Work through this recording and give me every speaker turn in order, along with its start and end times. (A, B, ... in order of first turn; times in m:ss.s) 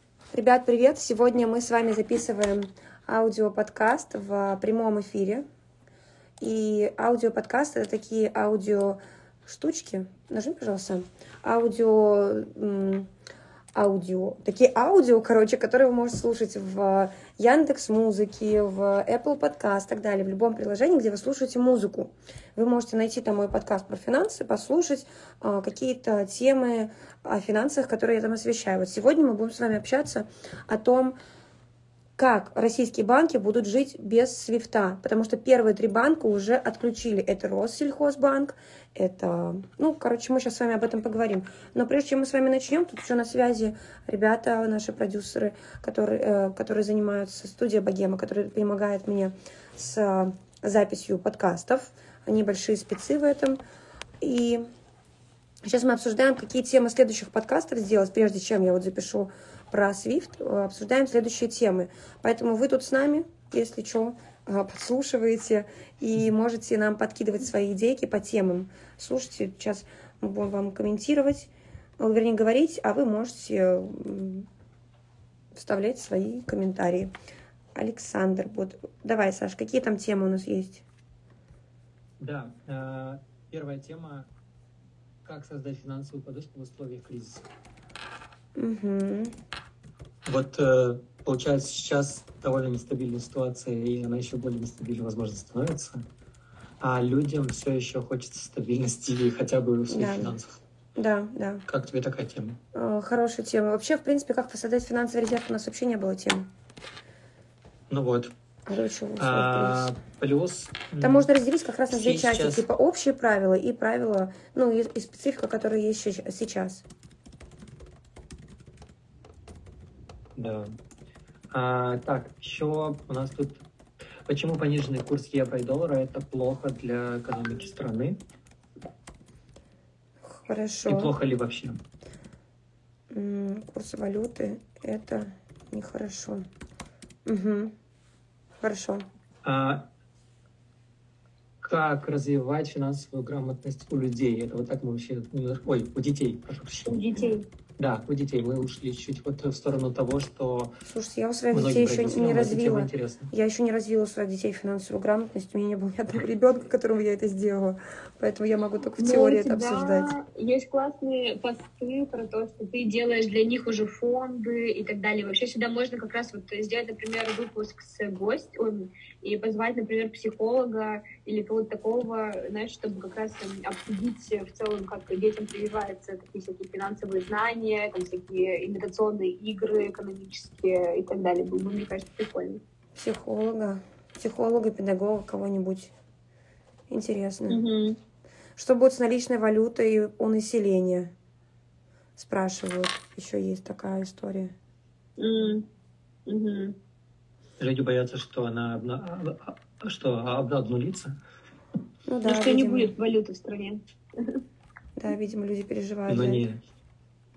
0:00.3-0:05.4 A
0:06.4-0:13.1 A
0:13.7-0:31.2 A
0:32.2-0:53.6 A
0:54.2-0:54.7 A
0:55.6-1:14.5 A
1:15.5-1:17.1 A
1:17.7-1:20.8 A
1:22.2-1:24.3 B
1:25.2-1:27.4 B
1:28.6-1:29.3 A
1:30.2-1:36.0 B
1:36.8-1:40.6 B
1:39.9-1:40.3 A
1:41.0-1:41.6 A
1:41.7-1:42.6 B
1:42.7-1:46.5 A
1:47.9-1:48.3 B
1:48.7-1:49.9 A
1:49.2-1:51.3 B
1:51.0-1:56.8 A
1:51.9-1:52.6 B
2:00.4-2:00.7 B
2:01.5-2:03.6 B
2:04.2-2:08.2 B
2:10.2-2:11.1 A
2:10.9-2:11.8 B
2:13.1-2:16.5 A
2:17.2-2:17.7 A
2:18.6-2:19.0 A
2:19.4-2:19.9 B
2:21.6-2:27.0 B
2:26.8-2:27.4 C
2:27.8-2:30.7 B
2:30.8-2:40.1 A
2:31.5-2:33.3 B
2:39.0-3:02.6 C
3:02.9-3:05.9 A
3:06.9-3:07.6 A
3:07.5-3:08.0 C
3:08.6-3:11.1 A
3:12.2-3:14.5 A
3:15.2-3:15.6 C
3:16.2-3:16.8 C
3:17.6-3:21.2 B
3:22.1-3:22.9 A
3:22.2-3:24.4 C
3:25.0-3:26.4 A
3:26.1-3:26.6 B